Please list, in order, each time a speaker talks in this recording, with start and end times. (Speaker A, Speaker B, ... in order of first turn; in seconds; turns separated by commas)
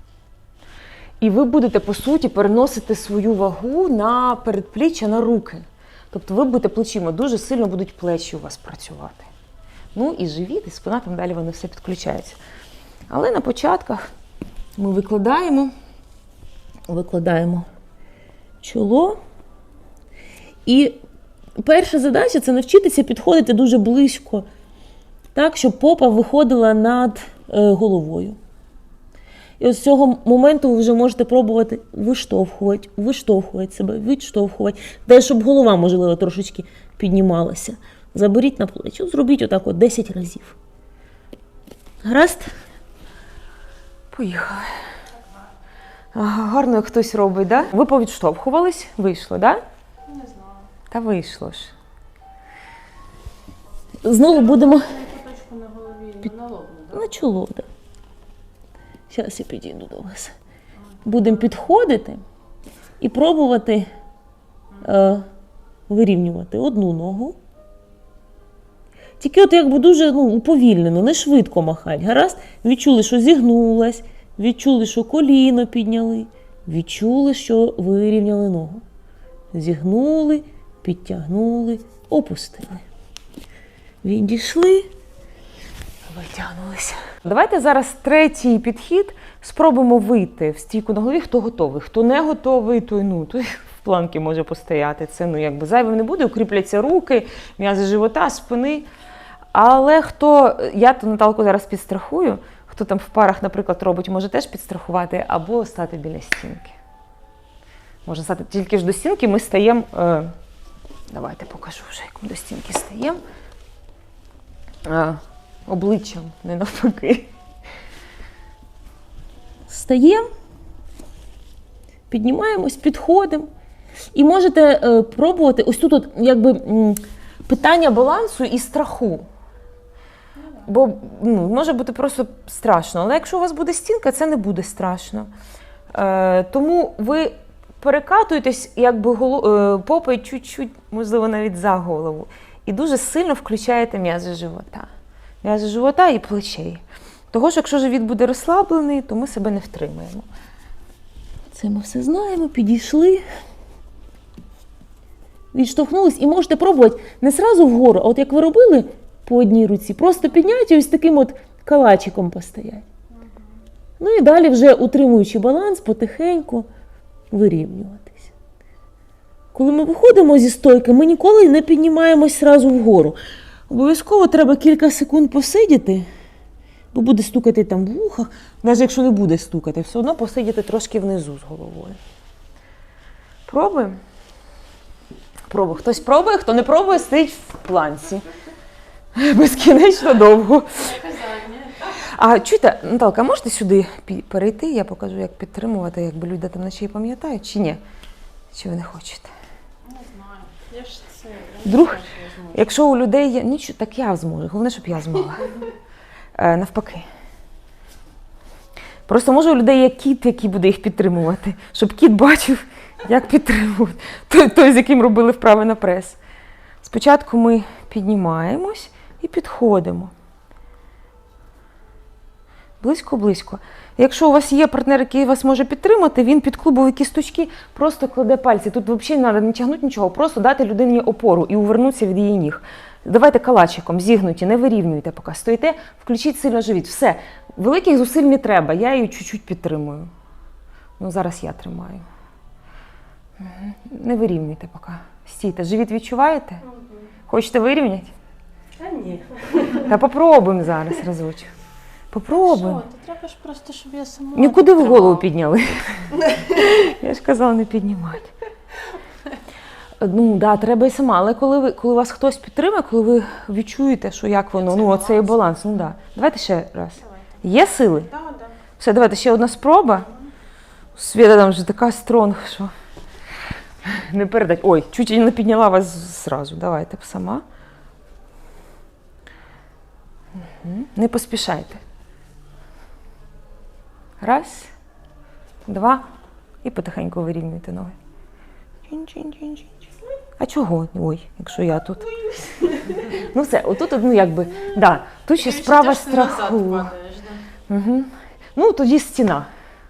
Speaker A: 1.2-9.3, Speaker A: 9.9-12.4, Speaker A: 13.1-14.1, Speaker A: 14.8-15.7, Speaker A: 16.9-17.7, Speaker A: 18.6-19.2, Speaker A: 20.6-21.0, Speaker A: 21.6-24.4, Speaker A: 25.3-28.4, Speaker A: 29.6-40.6, Speaker A: 42.0-42.5, Speaker A: 44.1-44.8, Speaker A: 46.1-49.6, Speaker B: 50.1-50.6, Speaker A: 50.9-51.7, Speaker A: 54.0-55.0, Speaker B: 54.5-57.0, Speaker A: 56.9-57.7, Speaker A: 59.1-60.3, Speaker A: 61.0-62.2, Speaker A: 63.0-63.9, Speaker A: 64.8-65.3, Speaker A: 65.9-67.3, Speaker A: 69.2-78.8, Speaker A: 79.5-82.8, Speaker A: 84.0-84.9, Speaker A: 86.1-98.9, Speaker A: 99.5-106.8, Speaker A: 108.0-110.3, Speaker A: 111.1-113.2, Speaker A: 114.8-117.3, Speaker A: 119.7-120.3, Speaker A: 122.1-123.5, Speaker A: 124.1-129.2, Speaker A: 130.6-135.3, Speaker A: 135.9-144.9, Speaker A: 145.4-150.3, Speaker A: 151.5-153.2, Speaker A: 155.5-162.8, Speaker A: 164.0-166.7, Speaker A: 167.3-168.3, Speaker A: 169.5-173.2, Speaker A: 173.7-176.1, Speaker A: 176.9-182.0, Speaker A: 183.5-184.0, Speaker A: 185.5-188.3, Speaker A: 189.1-197.8, Speaker B: 191.1-191.8, Speaker A: 198.5-199.3, Speaker B: 199.8-202.6, Speaker A: 201.6-205.7, Speaker A: 206.3-207.1, Speaker A: 209.1-216.2, Speaker A: 216.8-220.1, Speaker A: 222.8-240.1, Speaker A: 241.0-242.0, Speaker A: 243.4-246.6, Speaker B: 246.7-246.9, Speaker A: 247.3-248.1, Speaker B: 248.8-249.9, Speaker A: 249.7-251.5, Speaker A: 252.1-252.8, Speaker B: 252.3-255.2, Speaker A: 254.3-258.3, Speaker A: 260.0-268.2, Speaker B: 264.7-265.2, Speaker B: 268.1-268.5, Speaker A: 268.8-270.1, Speaker A: 270.9-272.7, Speaker A: 273.8-277.4, Speaker A: 280.4-281.8, Speaker A: 284.2-284.7, Speaker A: 285.6-286.1, Speaker A: 286.6-287.9, Speaker A: 288.9-289.7, Speaker A: 290.4-297.0, Speaker B: 292.6-292.9, Speaker B: 295.4-297.4, Speaker A: 297.7-299.5